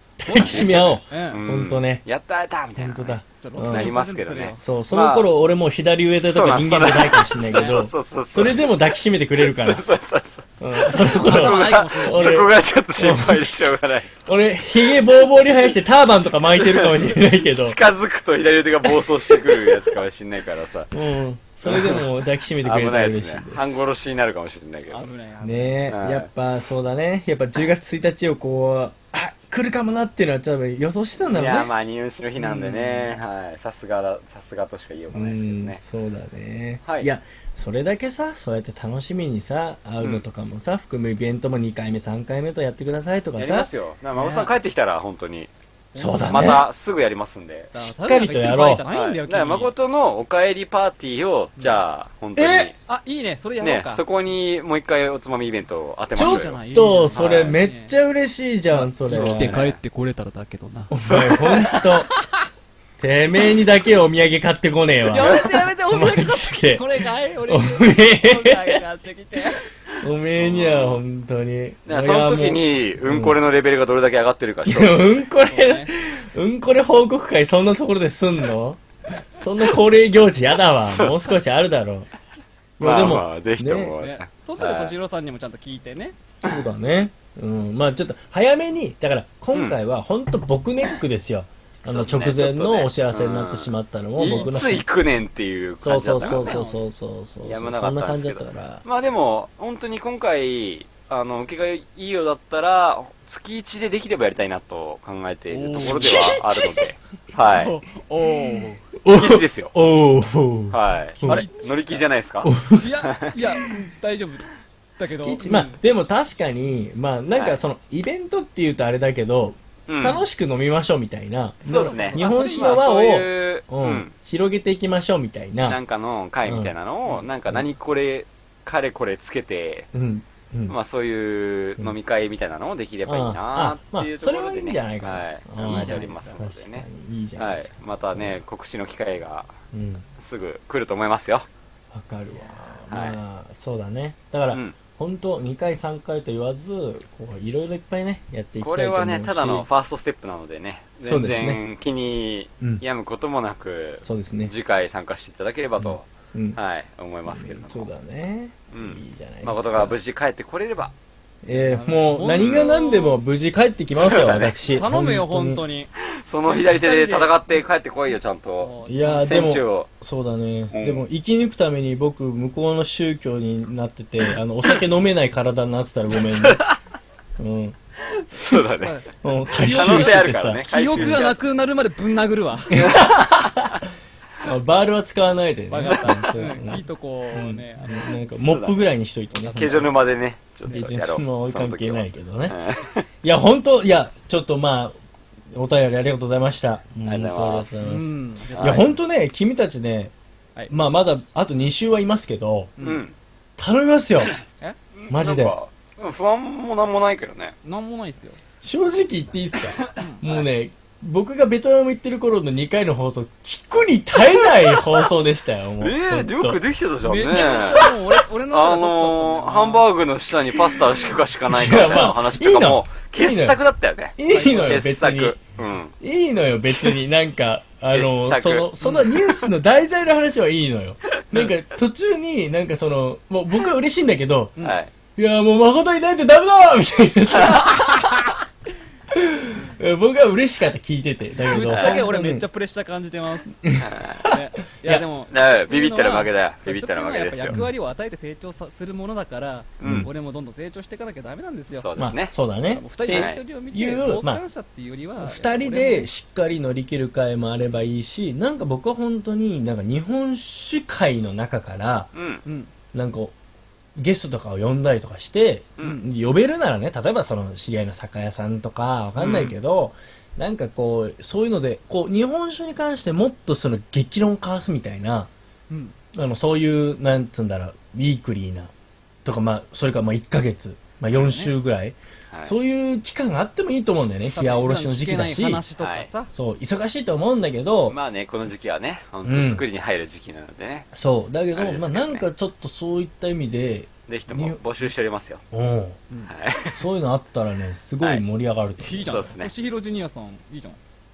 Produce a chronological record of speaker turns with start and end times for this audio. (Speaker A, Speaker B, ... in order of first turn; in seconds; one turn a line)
Speaker A: 0.2-2.0
Speaker B: 0.3-1.4
Speaker C: 0.4-5.3
Speaker A: 2.8-4.0
Speaker B: 3.4-4.6
Speaker A: 4.6-9.8
Speaker C: 6.1-8.7
Speaker B: 7.4-7.8
Speaker C: 9.4-14.2
Speaker A: 10.6-17.8
Speaker B: 10.9-12.5
Speaker C: 15.1-20.9
Speaker A: 18.8-19.9
Speaker A: 20.9-23.9
Speaker C: 21.6-25.0
Speaker B: 24.9-25.9
Speaker A: 25.4-31.7
Speaker C: 25.9-26.3
Speaker C: 31.3-35.8
Speaker A: 32.4-33.1
Speaker A: 35.1-43.7
Speaker C: 36.8-37.1
Speaker C: 43.4-45.5
Speaker B: 44.1-44.5
Speaker B: 45.9-46.5
Speaker A: 46.0-46.7
Speaker C: 46.3-47.7
Speaker B: 47.7-49.7
Speaker A: 47.8-48.8
Speaker C: 48.9-52.7
Speaker B: 52.4-54.0
Speaker C: 53.6-56.6
Speaker B: 56.1-57.9
Speaker A: 56.2-59.6
Speaker C: 57.1-57.6
Speaker B: 58.7-60.9
Speaker C: 59.1-59.8
Speaker A: 60.9-62.1
Speaker C: 61.0-61.7
Speaker B: 61.4-62.1
Speaker A: 63.0-68.8
Speaker B: 65.0-69.7
Speaker C: 65.2-65.5
Speaker C: 70.0-71.0
Speaker A: 70.0-73.4
Speaker C: 71.9-75.3
Speaker A: 74.7-82.1
Speaker B: 75.5-75.9
Speaker C: 80.7-81.2
Speaker A: 82.8-84.0
Speaker C: 82.8-85.0
Speaker B: 84.0-86.2
Speaker A: 86.4-94.9
Speaker C: 91.9-96.7
Speaker A: 95.8-98.8
Speaker B: 96.2-96.8
Speaker C: 97.4-107.8
Speaker B: 105.5-106.3
Speaker A: 105.7-106.9
Speaker B: 107.4-108.8
Speaker A: 109.0-111.5
Speaker C: 109.1-109.7
Speaker C: 110.7-113.3
Speaker B: 111.2-112.0
Speaker A: 112.4-112.9
Speaker B: 112.7-115.8
Speaker A: 115.2-125.8
Speaker C: 119.9-120.2
Speaker B: 121.7-123.0
Speaker C: 121.7-124.1
Speaker C: 125.6-129.9
Speaker A: 126.4-126.7
Speaker A: 129.9-130.8
Speaker C: 130.7-136.8
Speaker A: 133.1-138.4
Speaker B: 135.7-136.3
Speaker C: 137.4-139.6
Speaker A: 139.7-140.1
Speaker C: 140.2-141.5
Speaker A: 141.9-149.7
Speaker C: 142.9-143.2
Speaker C: 144.5-144.8
Speaker C: 148.6-157.9
Speaker A: 151.0-151.6
Speaker A: 154.1-154.5
Speaker A: 155.8-156.6
Speaker A: 157.3-159.9
Speaker C: 158.7-160.9
Speaker A: 161.4-165.6
Speaker B: 161.5-163.2
Speaker C: 162.3-162.7
Speaker C: 163.9-164.6
Speaker B: 164.7-165.9
Speaker C: 166.2-169.9
Speaker B: 166.5-167.4
Speaker B: 168.5-169.6
Speaker A: 168.8-176.6
Speaker C: 170.7-171.0
Speaker C: 176.1-176.8
Speaker A: 177.4-177.8
Speaker C: 178.1-179.0
Speaker B: 178.8-182.9
Speaker A: 179.2-181.2
Speaker C: 179.6-181.4
Speaker A: 182.7-183.8
Speaker C: 182.8-183.1
Speaker A: 184.4-189.9
Speaker B: 185.7-188.2
Speaker C: 188.4-188.8
Speaker B: 189.4-189.9
Speaker C: 189.5-193.1
Speaker B: 190.7-190.9
Speaker A: 190.7-192.6
Speaker A: 193.2-195.0
Speaker A: 195.5-200.1
Speaker C: 197.1-197.8
Speaker B: 197.8-198.9
Speaker C: 198.5-198.9
Speaker A: 200.7-202.8
Speaker B: 202.8-203.0
Speaker C: 202.8-203.2
Speaker A: 203.6-204.3
Speaker C: 205.0-207.6
Speaker A: 205.1-205.6
Speaker B: 207.6-208.4
Speaker A: 208.6-216.6
Speaker B: 209.9-210.4
Speaker C: 215.8-217.9
Speaker B: 217.1-219.9
Speaker A: 217.3-217.9
Speaker C: 218.5-225.9
Speaker A: 220.6-223.6
Speaker A: 224.2-225.4
Speaker B: 224.3-224.8
Speaker A: 226.0-234.6
Speaker C: 227.9-229.1
Speaker B: 228.8-229.1
Speaker C: 234.6-234.9
Speaker A: 235.2-238.3
Speaker A: 239.1-242.4
Speaker B: 241.4-243.6
Speaker C: 241.7-242.0
Speaker A: 243.6-245.1
Speaker C: 243.8-244.3
Speaker B: 244.2-251.9
Speaker C: 245.3-247.6
Speaker C: 249.8-250.1
Speaker A: 249.8-250.1
Speaker C: 251.7-252.3
Speaker A: 252.0-254.4
Speaker B: 252.7-256.1
Speaker C: 253.1-253.4
Speaker A: 255.2-262.1
Speaker C: 262.1-262.4
Speaker B: 262.4-262.7
Speaker A: 262.9-263.3
Speaker A: 264.0-275.3
Speaker C: 269.2-269.5
Speaker B: 275.7-275.9
Speaker A: 276.1-278.7
Speaker A: 279.2-285.6
Speaker B: 281.1-281.5
Speaker C: 282.3-282.6
Speaker B: 284.3-286.3
Speaker C: 285.8-286.1
Speaker A: 286.3-288.0
Speaker C: 287.9-290.9
Speaker A: 289.2-289.6
Speaker A: 290.9-294.6
Speaker C: 291.5-292.3
Speaker C: 294.1-295.4
Speaker A: 295.5-296.0
Speaker C: 296.3-296.8
Speaker A: 296.7-299.3
Speaker B: 298.8-300.8
Speaker C: 299.0-299.5